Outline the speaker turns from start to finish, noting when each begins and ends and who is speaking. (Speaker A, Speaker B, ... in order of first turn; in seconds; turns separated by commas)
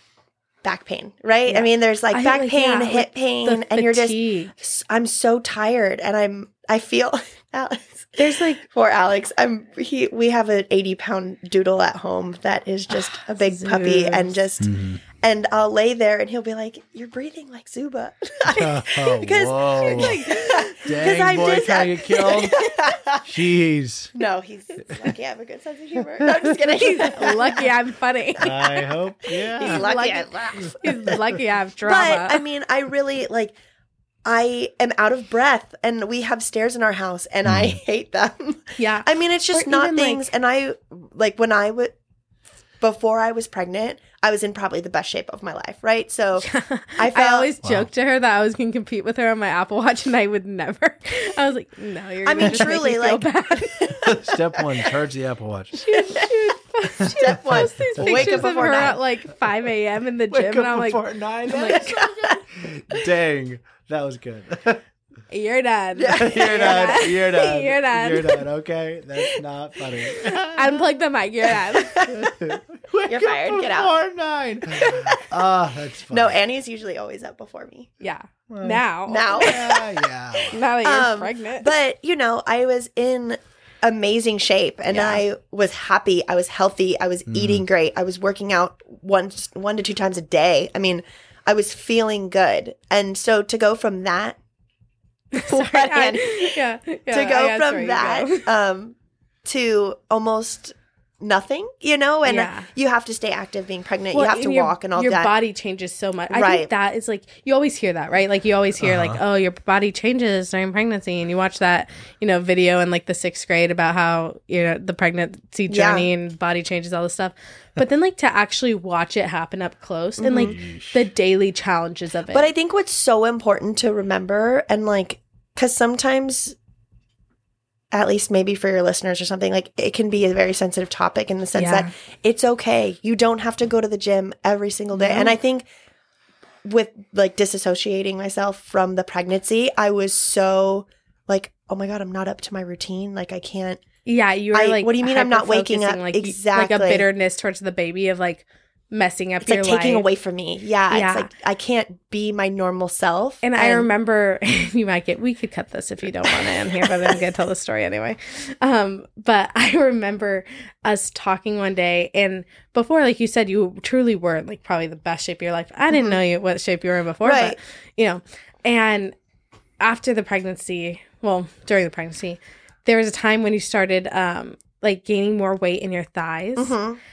Speaker A: 0.6-23.3, Speaker B: 1.5-4.5, Speaker B: 8.2-8.6, Speaker B: 12.9-14.3, Speaker C: 14.6-15.0, Speaker C: 18.4-22.7, Speaker B: 19.8-20.9, Speaker C: 23.2-24.1, Speaker A: 24.1-27.7, Speaker C: 26.2-26.6, Speaker B: 26.7-28.9, Speaker C: 28.4-29.9, Speaker A: 29.4-31.2, Speaker B: 29.6-32.4, Speaker A: 31.8-33.5, Speaker A: 34.2-41.9, Speaker C: 37.5-37.8, Speaker B: 38.8-40.3, Speaker A: 42.8-46.5, Speaker B: 46.4-53.9, Speaker A: 47.0-47.5, Speaker C: 47.6-47.9, Speaker A: 52.2-54.9, Speaker C: 54.0-55.9, Speaker B: 55.7-62.1, Speaker A: 56.0-56.3, Speaker C: 57.0-58.9, Speaker A: 57.1-59.0, Speaker C: 60.3-64.8, Speaker A: 61.5-62.4, Speaker B: 65.3-68.4, Speaker A: 66.0-67.1, Speaker C: 66.1-70.8, Speaker B: 70.2-72.3, Speaker A: 71.7-72.3, Speaker C: 72.1-76.3, Speaker A: 73.1-73.9, Speaker A: 74.7-75.2, Speaker A: 76.1-77.9, Speaker B: 78.0-79.8, Speaker C: 78.5-78.8, Speaker A: 79.1-79.9, Speaker C: 79.4-80.6, Speaker B: 80.5-81.7, Speaker A: 80.8-94.4, Speaker B: 84.9-85.2, Speaker C: 87.3-87.6, Speaker B: 95.3-98.5, Speaker A: 95.4-105.3, Speaker B: 102.2-102.7, Speaker B: 104.1-122.5, Speaker A: 106.3-106.7, Speaker C: 108.8-109.2, Speaker A: 115.7-116.1, Speaker A: 120.2-120.5, Speaker C: 120.3-121.0, Speaker A: 122.3-126.5, Speaker A: 127.9-135.6, Speaker B: 131.5-131.9, Speaker B: 134.9-135.3, Speaker A: 136.6-143.8, Speaker B: 144.0-150.0, Speaker A: 144.5-147.1, Speaker A: 149.4-153.9, Speaker B: 150.9-151.3, Speaker B: 153.4-169.1, Speaker A: 156.3-157.1, Speaker A: 165.9-166.2, Speaker A: 167.2-167.6, Speaker B: 169.8-176.7, Speaker A: 176.6-177.0